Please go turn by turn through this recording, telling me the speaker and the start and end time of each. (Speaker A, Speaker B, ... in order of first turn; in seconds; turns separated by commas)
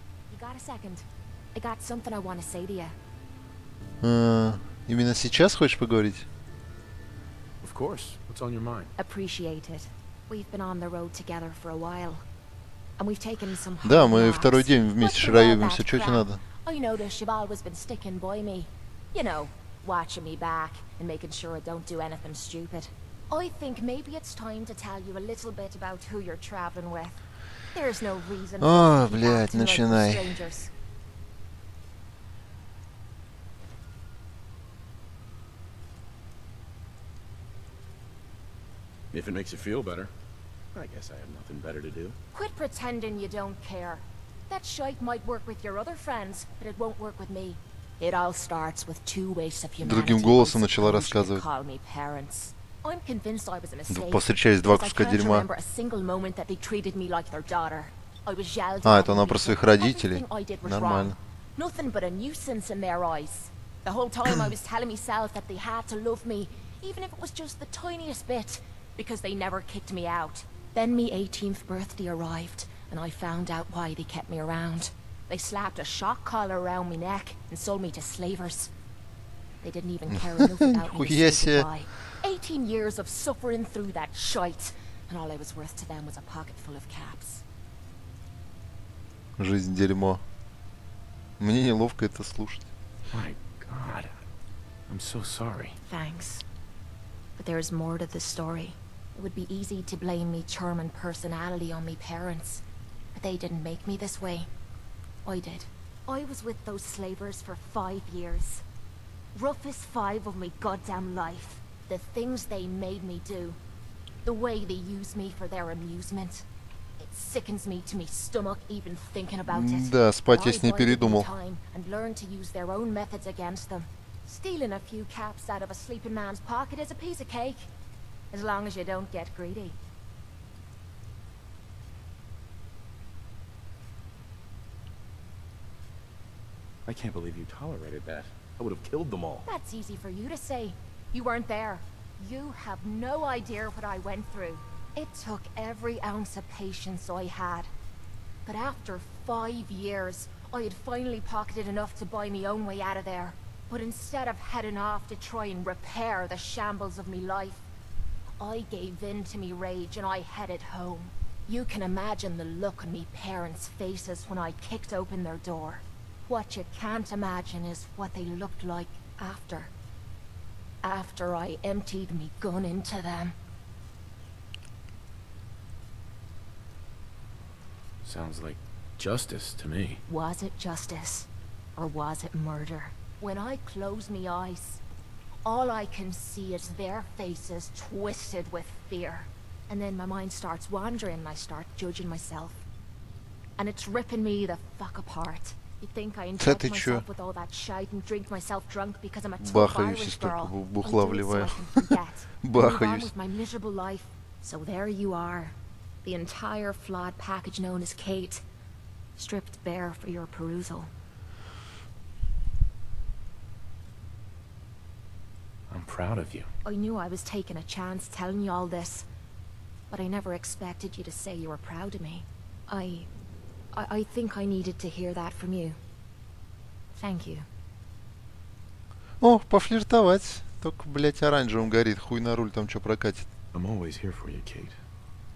Speaker A: 0.3-3.0, Speaker B: 4.0-6.3, Speaker C: 7.6-8.9, Speaker A: 9.0-12.2, Speaker A: 13.0-27.2, Speaker B: 13.8-16.4, Speaker A: 27.7-30.7, Speaker B: 28.6-30.4, Speaker C: 39.1-40.1, Speaker C: 40.7-42.2, Speaker A: 42.3-78.7, Speaker B: 49.8-51.4, Speaker B: 53.9-55.5, Speaker B: 58.8-61.2, Speaker A: 79.6-87.4, Speaker B: 80.1-81.7, Speaker B: 89.4-90.2, Speaker B: 91.4-92.7, Speaker C: 93.1-94.2, Speaker C: 94.9-95.8, Speaker A: 95.9-96.4, Speaker A: 97.4-102.6, Speaker A: 103.2-104.5, Speaker A: 105.2-108.6, Speaker A: 109.3-113.6, Speaker A: 114.2-116.5, Speaker A: 117.0-127.7, Speaker B: 119.5-121.3, Speaker A: 128.3-129.8, Speaker C: 136.9-139.4, Speaker A: 139.5-147.7, Speaker A: 148.5-157.7, Speaker A: 158.4-169.7, Speaker A: 170.8-173.3, Speaker C: 178.0-180.0, Speaker A: 180.1-184.8, Speaker A: 185.4-192.6, Speaker A: 193.6-208.4, Speaker B: 196.4-197.1, Speaker B: 199.4-203.1, Speaker A: 209.2-210.9, Speaker C: 215.7-216.5, Speaker A: 216.7-219.1, Speaker A: 219.9-223.1, Speaker A: 223.7-225.8, Speaker A: 227.0-227.5, Speaker B: 229.2-233.3, Speaker C: 233.5-234.8